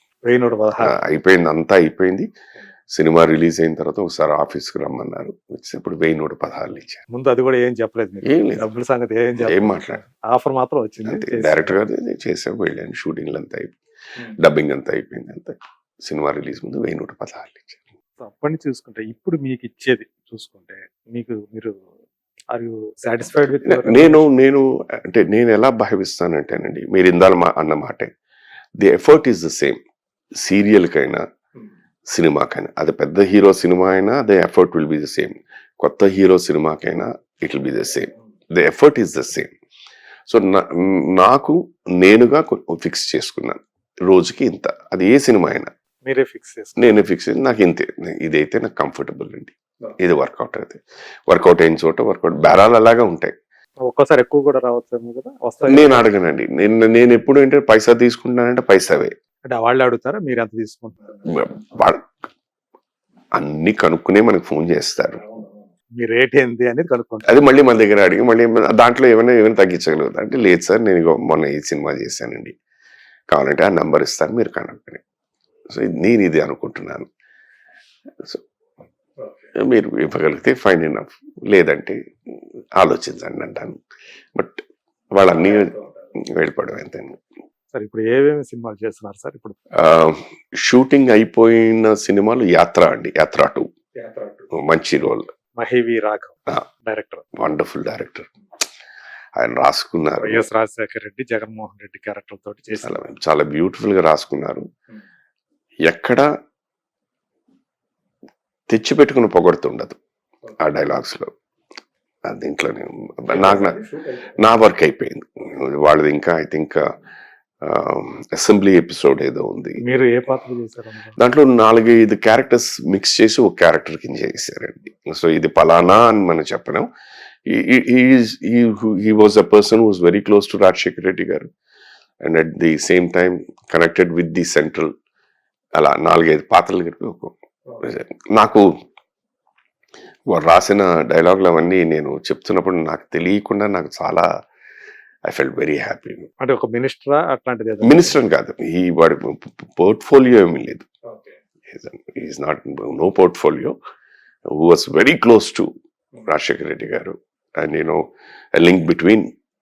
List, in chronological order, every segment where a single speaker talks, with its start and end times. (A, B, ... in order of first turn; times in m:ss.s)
0:00.2-0:00.9 A
0:00.8-0:02.3 B
0:02.9-0:07.0 B
0:07.1-0:11.8 A
0:08.2-0:08.7 B
0:09.4-0:10.0 B
0:11.1-0:17.8 B
0:18.2-0:21.8 A
0:22.5-0:24.2 A
0:23.3-0:28.1 B
0:28.8-0:29.8 B
0:30.4-0:31.2 B
0:32.1-0:39.5 B
0:40.3-0:45.7 B
0:46.0-0:46.9 A
0:46.8-0:53.3 B
0:53.9-0:56.0 A
0:55.7-0:59.1 B
0:59.5-1:01.2 A
1:01.3-1:02.1 B
1:03.4-1:05.2 B
1:06.0-1:07.4 A
1:07.3-1:12.5 B
1:13.3-1:15.0 B
1:15.7-1:17.1 B
1:19.6-1:22.0 B
1:22.8-1:23.8 B
1:24.4-1:24.6 B
1:25.1-1:27.2 B
1:27.7-1:29.6 A
1:29.8-1:33.7 B
1:34.0-1:34.3 A
1:34.5-1:35.3 B
1:35.6-1:37.3 A
1:37.4-1:38.3 B
1:39.4-1:40.4 B
1:40.2-1:43.1 A
1:42.8-1:44.7 B
1:45.9-1:46.3 B
1:48.7-1:50.0 B
1:50.6-1:51.3 B
1:52.3-1:53.8 B
1:53.3-1:54.3 A
1:54.4-1:56.8 B
1:57.6-1:59.8 B
1:59.8-2:01.2 A
2:01.2-2:06.9 B
2:07.5-2:11.5 B
2:12.2-2:14.9 B
2:15.8-2:18.7 B
2:20.3-2:24.3 B
2:25.3-2:26.3 B
2:26.4-2:28.2 A
2:27.8-2:30.9 B
2:31.7-2:33.8 B
2:34.5-2:35.7 B
2:36.2-2:38.0 B
2:38.6-2:39.3 B